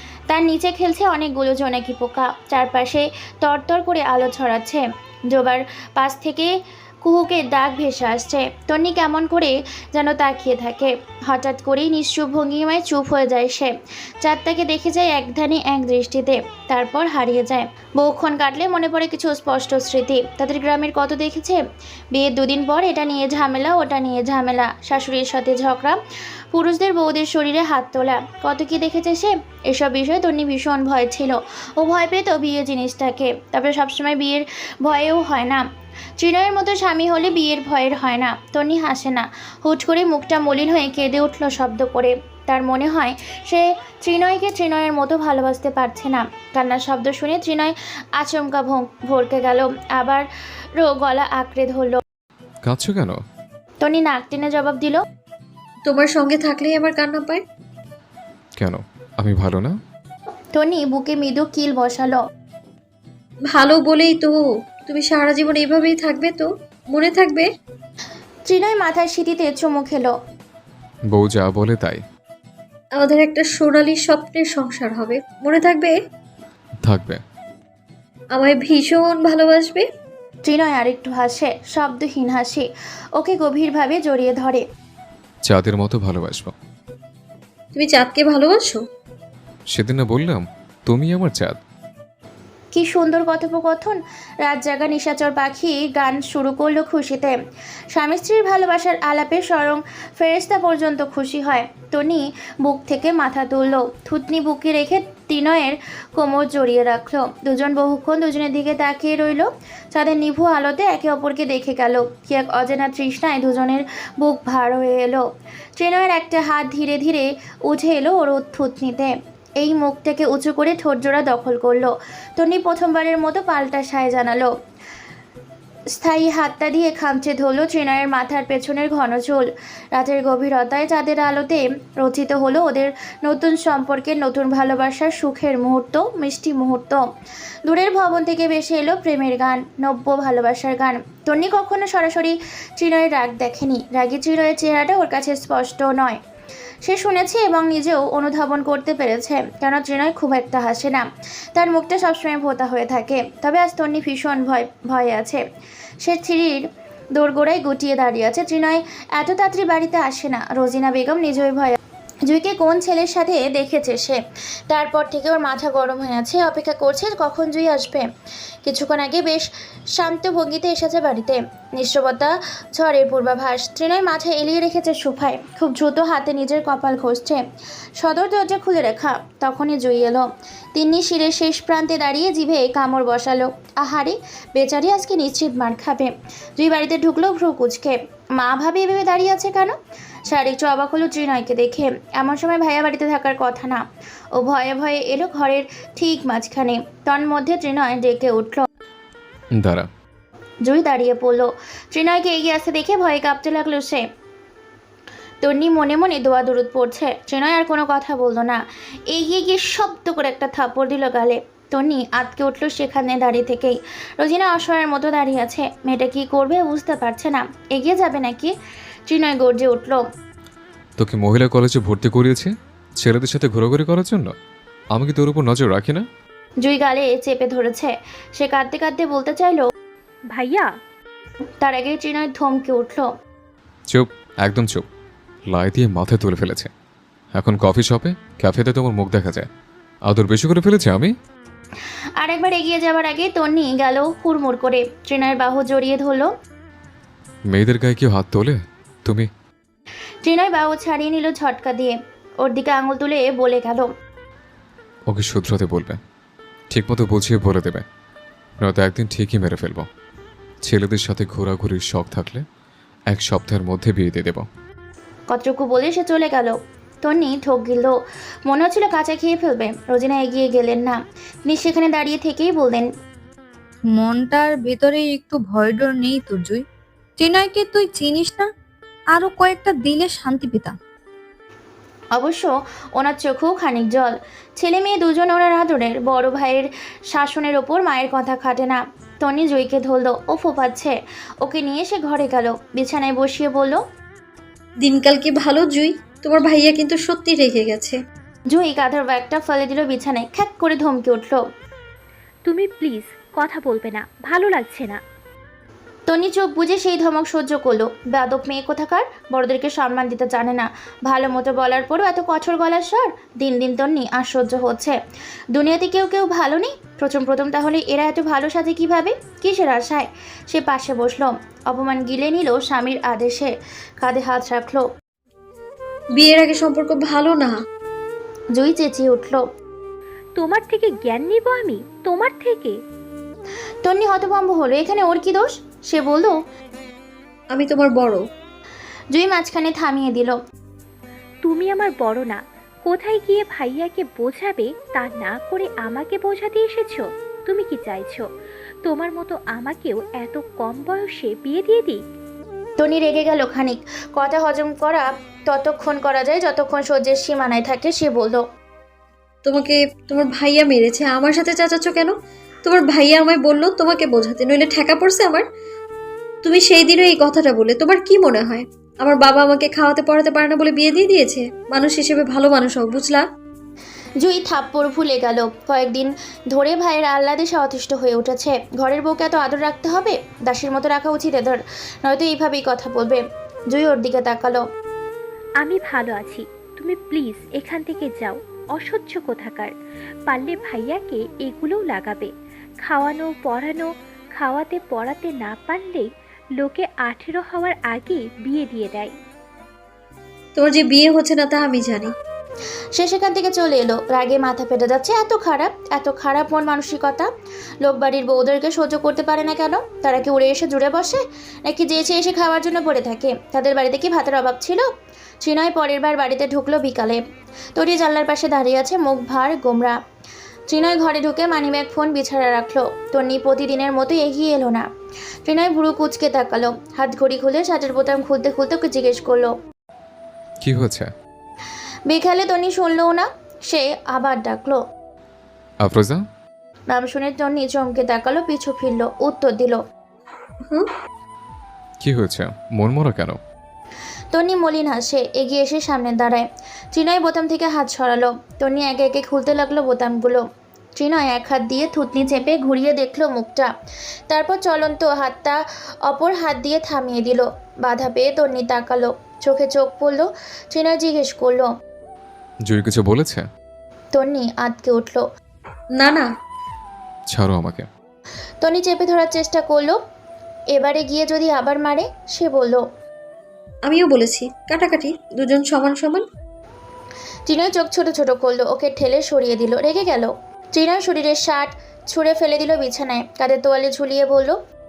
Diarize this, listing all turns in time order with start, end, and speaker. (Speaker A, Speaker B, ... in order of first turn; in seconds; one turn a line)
Speaker A: 0.3-6.5
Speaker A: 7.0-21.6
Speaker A: 22.1-26.0
Speaker A: 26.5-35.6
Speaker A: 36.2-50.2
Speaker A: 50.8-52.0
Speaker B: 52.6-53.2
Speaker A: 53.8-55.0
Speaker C: 55.9-57.4
Speaker B: 58.6-59.7
Speaker A: 60.5-62.2
Speaker C: 63.5-67.5
Speaker A: 68.5-70.1
Speaker B: 71.1-72.0
Speaker C: 73.0-76.0
Speaker B: 76.8-77.2
Speaker C: 78.3-79.8
Speaker A: 80.4-84.6
Speaker B: 85.5-86.5
Speaker C: 87.7-88.8
Speaker B: 89.7-91.5
Speaker A: 92.7-97.3
Speaker A: 97.9-115.2
Speaker A: 115.8-124.5
Speaker A: 126.0-137.0
Speaker A: 137.7-146.2
Speaker A: 146.8-155.4
Speaker A: 156.0-156.6
Speaker A: 157.1-168.1
Speaker A: 168.6-177.4
Speaker A: 178.0-189.7
Speaker A: 190.3-193.8
Speaker A: 194.3-198.6
Speaker B: 199.6-199.9
Speaker A: 200.6-204.0
Speaker A: 205.4-208.6
Speaker A: 209.1-218.5
Speaker A: 219.1-220.0
Speaker B: 221.0-224.3
Speaker B: 224.9-226.1
Speaker A: 226.6-229.7
Speaker D: 230.3-230.7
Speaker A: 231.6-233.1
Speaker B: 233.9-234.8
Speaker B: 235.5-236.7
Speaker B: 237.3-239.5
Speaker B: 240.1-241.1
Speaker A: 242.2-246.3
Speaker B: 247.5-249.3
Speaker A: 250.2-253.9
Speaker B: 255.1-256.0
Speaker B: 256.7-257.8
Speaker B: 258.6-259.9
Speaker B: 260.6-262.4
Speaker B: 263.1-264.4
Speaker A: 265.3-267.9
Speaker A: 268.5-272.9
Speaker E: 273.9-276.6
Speaker E: 277.2-278.5
Speaker E: 279.1-280.8
Speaker A: 282.1-293.8
Speaker C: 294.8-298.0
Speaker A: 298.5-301.4
Speaker D: 302.4-305.0
Speaker A: 306.1-314.9
Speaker A: 315.5-324.8
Speaker C: 326.2-327.6
Speaker A: 328.5-329.4
Speaker D: 330.4-332.8
Speaker A: 333.8-336.3
Speaker C: 337.5-338.2
Speaker A: 339.1-340.4
Speaker D: 341.4-348.2
Speaker D: 348.8-352.0
Speaker A: 352.8-358.4
Speaker C: 359.4-365.4
Speaker C: 366.4-373.2
Speaker A: 374.2-384.6
Speaker D: 385.6-389.7
Speaker D: 390.3-392.3
Speaker D: 392.8-399.1
Speaker C: 400.6-402.1
Speaker A: 402.9-407.3
Speaker A: 407.8-414.8
Speaker A: 415.4-417.2
Speaker A: 417.8-419.9
Speaker A: 420.7-424.9
Speaker A: 425.4-429.5
Speaker B: 430.6-431.1
Speaker A: 432.1-434.8
Speaker B: 435.8-436.2
Speaker A: 436.9-439.8
Speaker B: 442.0-443.4
Speaker A: 444.3-450.4
Speaker A: 451.0-453.7
Speaker A: 454.3-461.7
Speaker B: 462.6-463.4
Speaker A: 464.1-465.2
Speaker C: 465.9-466.3
Speaker B: 467.3-467.9
Speaker A: 468.6-470.0
Speaker A: 470.7-472.8
Speaker C: 473.9-476.2
Speaker A: 477.5-484.6